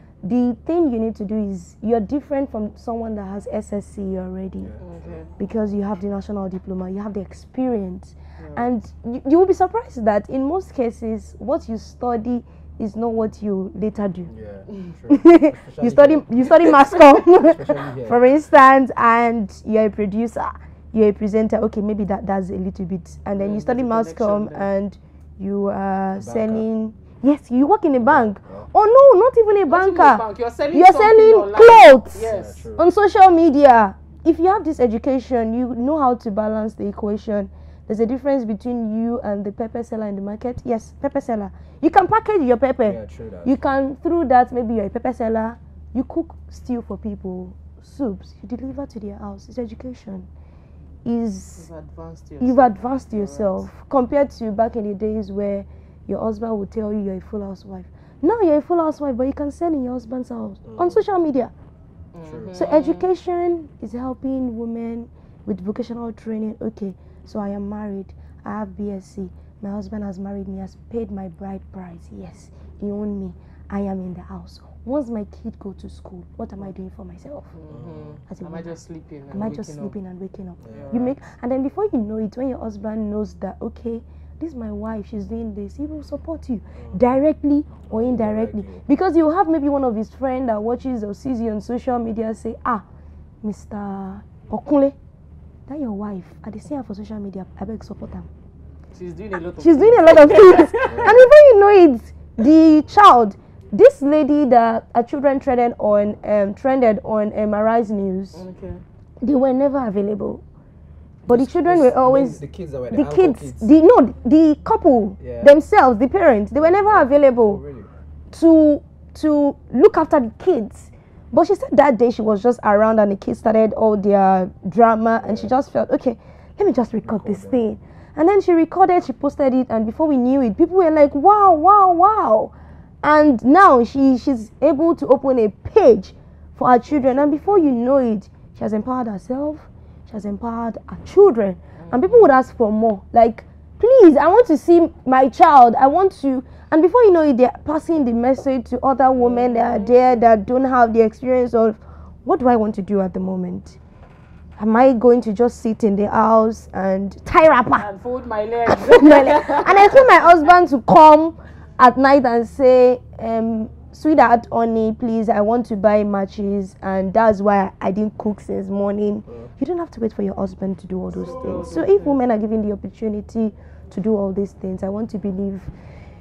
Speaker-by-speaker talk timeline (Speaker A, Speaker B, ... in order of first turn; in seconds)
Speaker A: 0.2-4.7, 5.4-14.3, 15.1-50.3, 51.0-51.7, 52.4-61.5, 62.5-77.5, 78.3-78.8, 79.3-92.8, 93.4-95.0, 95.7-98.3, 99.6-108.4, 109.2-110.4, 111.2-117.6, 118.3-153.8, 154.6-157.9, 158.7-175.7
Speaker B: 4.6-5.2, 14.3-18.3, 26.1-26.6, 28.0-28.7, 32.2-32.9, 42.9-43.6, 60.6-61.0, 62.2-62.5, 77.7-78.2, 80.6-80.9, 87.9-88.8, 100.8-101.3, 111.3-113.7, 115.2-115.5, 116.5-117.9, 125.2-125.5, 127.0-127.7, 136.9-137.7
Speaker C: 4.8-5.3, 8.4-8.7, 23.3-24.7, 29.6-32.7, 51.6-53.6, 62.1-63.1, 77.5-80.0, 80.7-81.3, 98.9-101.1, 108.3-108.8, 141.8-142.3, 149.1-150.2, 157.7-160.5, 171.1-172.2